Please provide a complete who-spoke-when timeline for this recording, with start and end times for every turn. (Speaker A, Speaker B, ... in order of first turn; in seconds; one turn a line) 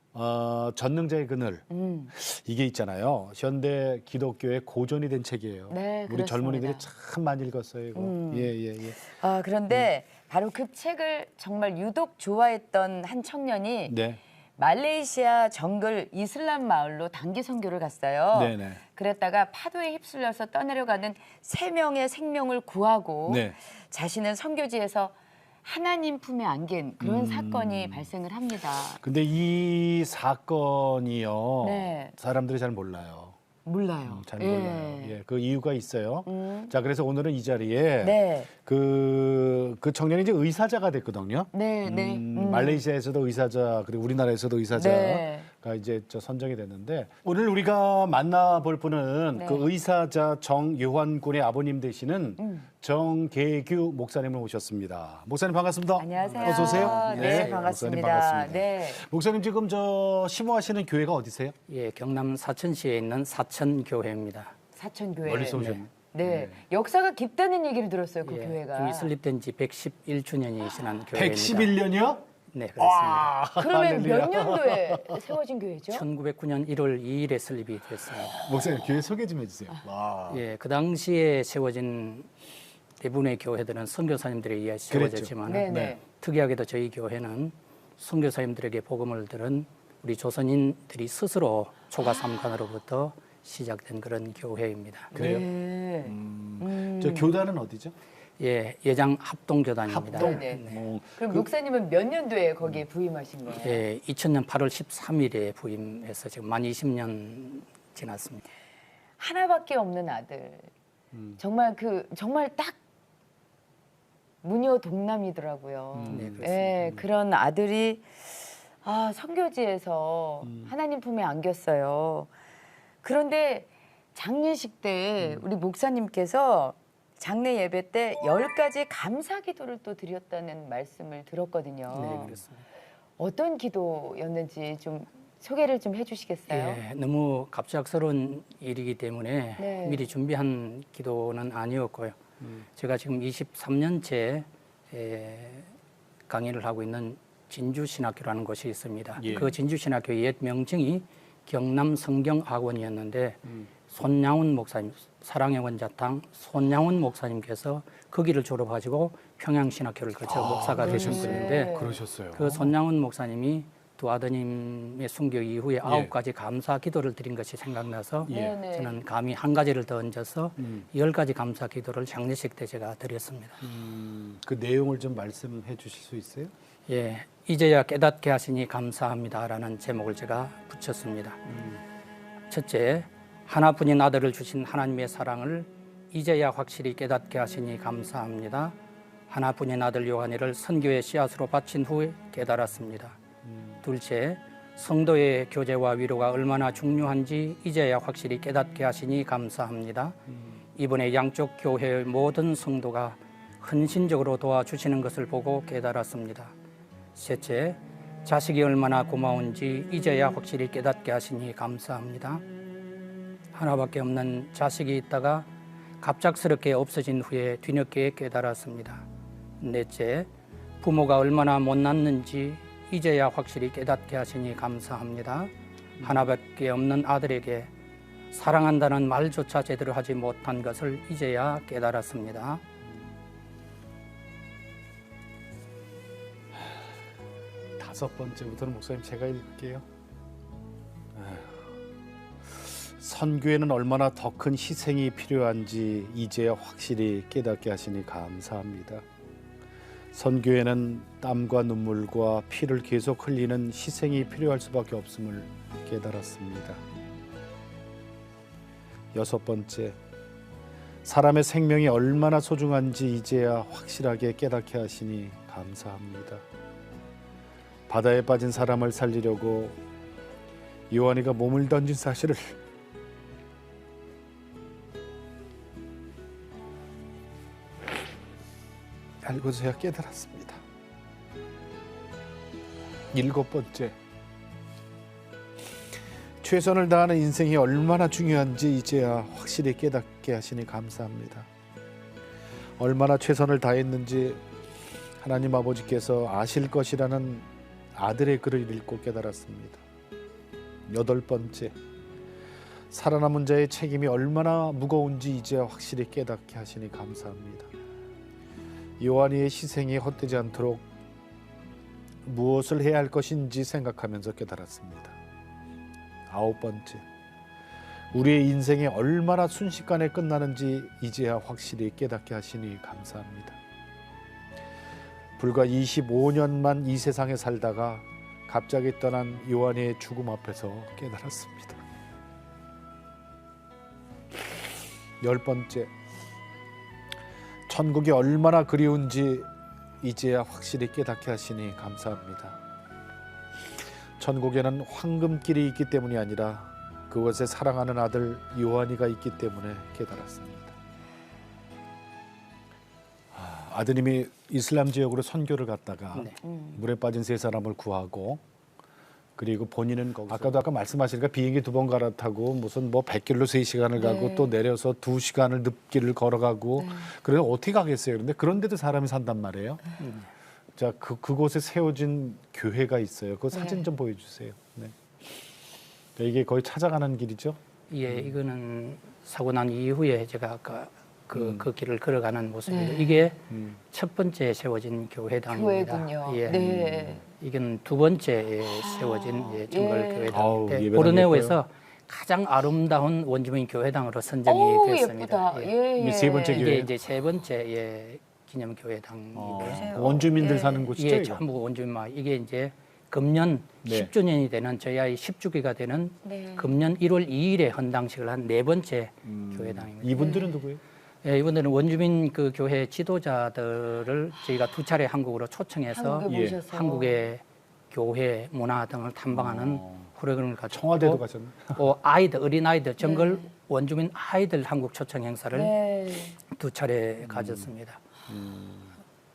Speaker A: 0.1-9.0
Speaker B: 1.7-2.1
Speaker B: 5.7-6.8
Speaker B: 7.9-14.0
Speaker A: 13.9-14.2
Speaker B: 14.6-29.0
Speaker A: 18.3-18.8
Speaker A: 23.3-23.6
Speaker A: 27.0-28.1
Speaker A: 28.9-33.4
Speaker B: 31.6-32.1
Speaker B: 33.6-35.1
Speaker A: 34.0-61.5
Speaker B: 36.2-36.7
Speaker B: 38.0-38.5
Speaker B: 41.5-42.8
Speaker B: 44.7-45.5
Speaker B: 49.4-49.7
Speaker B: 52.4-52.7
Speaker B: 56.0-59.0
Speaker C: 56.2-57.6
Speaker C: 61.7-64.5
Speaker B: 64.7-69.1
Speaker A: 65.2-66.6
Speaker C: 65.5-65.9
Speaker C: 68.2-71.8
Speaker A: 71.1-72.2
Speaker C: 72.5-73.3
Speaker A: 72.8-75.4
Speaker B: 73.5-76.0
Speaker C: 75.9-78.5
Speaker A: 78.3-80.4
Speaker C: 80.3-82.3
Speaker C: 83.0-95.1
Speaker A: 84.9-86.0
Speaker B: 85.4-86.0
Speaker B: 95.1-97.3
Speaker A: 95.1-95.5
Speaker A: 96.0-97.9
Speaker C: 98.4-100.9
Speaker A: 99.8-101.5
Speaker B: 100.1-103.8
Speaker C: 103.5-108.4
Speaker B: 109.2-110.7
Speaker A: 111.1-111.4
Speaker B: 111.4-112.8
Speaker B: 114.4-122.3
Speaker A: 115.9-117.0
Speaker C: 116.1-116.8
Speaker A: 120.4-120.7
Speaker B: 123.0-132.4
Speaker A: 125.2-125.4
Speaker C: 131.9-132.6
Speaker A: 131.9-132.4
Speaker B: 133.2-136.8
Speaker C: 136.5-142.2
Speaker B: 139.6-140.1
Speaker C: 142.8-145.7
Speaker C: 146.3-161.8
Speaker A: 149.2-149.5
Speaker A: 160.2-162.7
Speaker B: 160.8-162.0
Speaker C: 162.3-173.6
Speaker A: 165.8-166.1
Speaker A: 168.2-168.6
Speaker B: 168.3-169.0
Speaker A: 170.6-170.8
Speaker A: 173.6-176.5
Speaker C: 176.9-181.4
Speaker A: 181.5-181.8
Speaker C: 182.5-188.8
Speaker C: 189.3-193.2
Speaker A: 193.4-193.8
Speaker C: 193.8-200.2
Speaker A: 200.3-200.6
Speaker C: 200.7-206.5
Speaker C: 207.1-212.4
Speaker C: 213.5-215.5
Speaker C: 216.0-219.0
Speaker C: 219.6-220.3
Speaker C: 220.8-227.7
Speaker A: 226.0-226.3
Speaker C: 228.3-232.6
Speaker A: 237.8-239.8
Speaker A: 241.1-241.7
Speaker A: 242.5-249.0
Speaker A: 250.1-256.8
Speaker A: 259.1-260.0
Speaker A: 261.0-266.4
Speaker A: 267.9-269.8
Speaker A: 270.9-272.6
Speaker A: 279.2-280.6
Speaker A: 283.1-283.9
Speaker A: 286.4-291.5
Speaker A: 292.8-294.4
Speaker A: 295.2-299.8
Speaker A: 300.9-301.7
Speaker A: 302.9-307.7
Speaker A: 309.0-310.8
Speaker A: 312.2-315.1
Speaker A: 316.3-317.0
Speaker A: 318.1-323.6
Speaker A: 325.4-331.8
Speaker A: 335.2-335.9
Speaker A: 337.7-339.5
Speaker A: 340.0-342.6
Speaker A: 344.2-350.7
Speaker A: 353.3-358.4
Speaker B: 356.4-356.8
Speaker A: 359.4-369.8
Speaker B: 363.9-364.5
Speaker B: 366.8-367.1
Speaker C: 370.0-370.3
Speaker A: 370.8-374.9
Speaker B: 373.5-373.9
Speaker A: 376.1-378.4
Speaker C: 377.9-386.6
Speaker A: 381.3-381.7
Speaker B: 382.6-383.3
Speaker A: 383.5-383.8
Speaker B: 385.5-387.2
Speaker A: 386.5-387.2
Speaker C: 387.3-395.7
Speaker B: 388.8-390.4
Speaker A: 390.3-391.6
Speaker B: 394.4-396.8
Speaker A: 396.0-396.9
Speaker C: 396.5-400.3
Speaker A: 399.3-401.4
Speaker B: 399.6-400.9
Speaker C: 400.9-410.5
Speaker A: 403.8-404.1
Speaker B: 406.2-406.8
Speaker A: 409.2-410.8
Speaker B: 410.1-410.6
Speaker C: 411.2-425.7
Speaker B: 415.9-417.2
Speaker A: 416.3-416.6
Speaker A: 419.3-420.1
Speaker A: 420.7-421.9
Speaker B: 423.0-423.5
Speaker B: 425.5-426.4
Speaker C: 426.5-428.0
Speaker A: 427.2-427.7
Speaker A: 428.3-428.9